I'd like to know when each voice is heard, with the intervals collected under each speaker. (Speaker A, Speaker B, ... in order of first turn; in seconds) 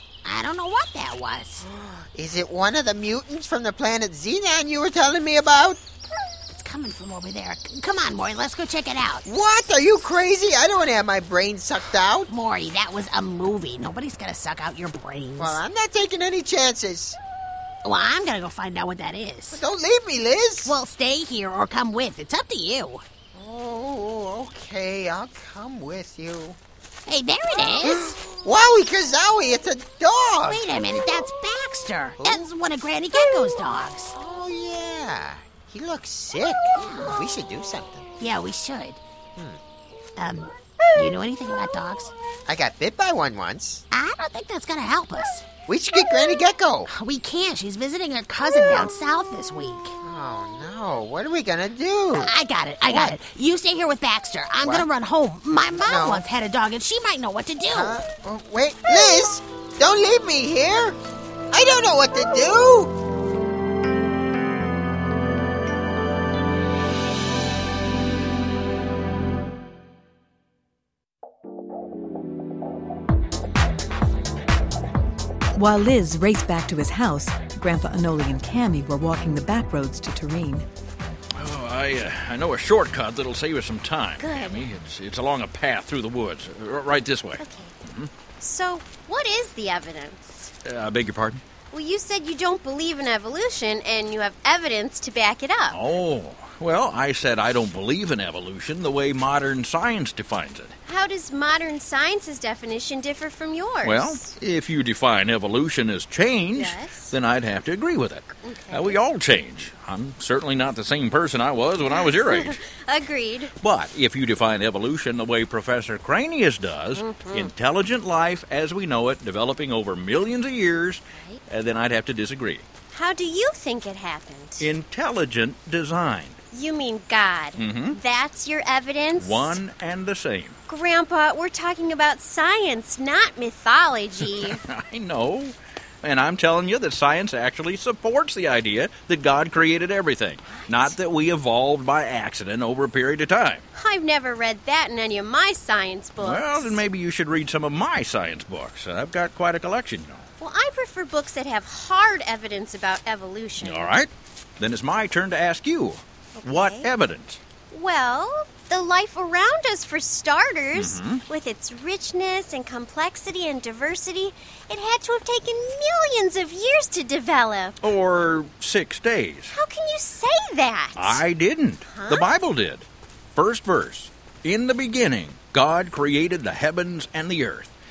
Speaker A: 0.2-1.6, 6.5-9.2, 12.3-15.6, 17.8-19.6, 20.6-23.0, 27.1-28.1, 30.4-34.1, 36.7-37.2, 38.2-39.0, 40.2-42.1, 43.9-45.5, 46.9-49.9, 52.1-58.0
Speaker B: 1.6-5.8, 9.2-12.3, 15.4-17.2, 19.5-20.7, 23.3-26.6, 27.8-30.7, 32.2-32.5, 34.1-38.1, 42.5-43.8, 45.6-46.9, 50.0-52.3, 52.9-53.1, 54.6-54.9, 55.7-56.2, 57.7-61.0, 61.5-62.9
Speaker C: 75.5-80.7
Speaker D: 81.3-88.1, 90.6-91.4, 95.7-100.7, 103.8-112.6, 113.6-122.7, 124.6-126.4, 127.6-128.0, 129.2-130.6, 134.4-143.7, 146.2-150.2, 153.6-157.4, 160.7-161.2, 167.8-169.6, 170.9-177.7
Speaker E: 84.2-84.7, 87.4-87.7, 88.4-90.5, 91.7-95.8, 100.9-104.3, 106.5-107.1, 108.4-109.0, 111.9-113.5, 117.0-117.5, 121.1-121.4, 122.9-124.7, 126.5-129.6, 130.7-134.6, 140.4-140.9, 143.7-146.8, 150.4-153.9, 156.3-156.9, 157.7-167.8, 169.5-171.2, 171.8-172.3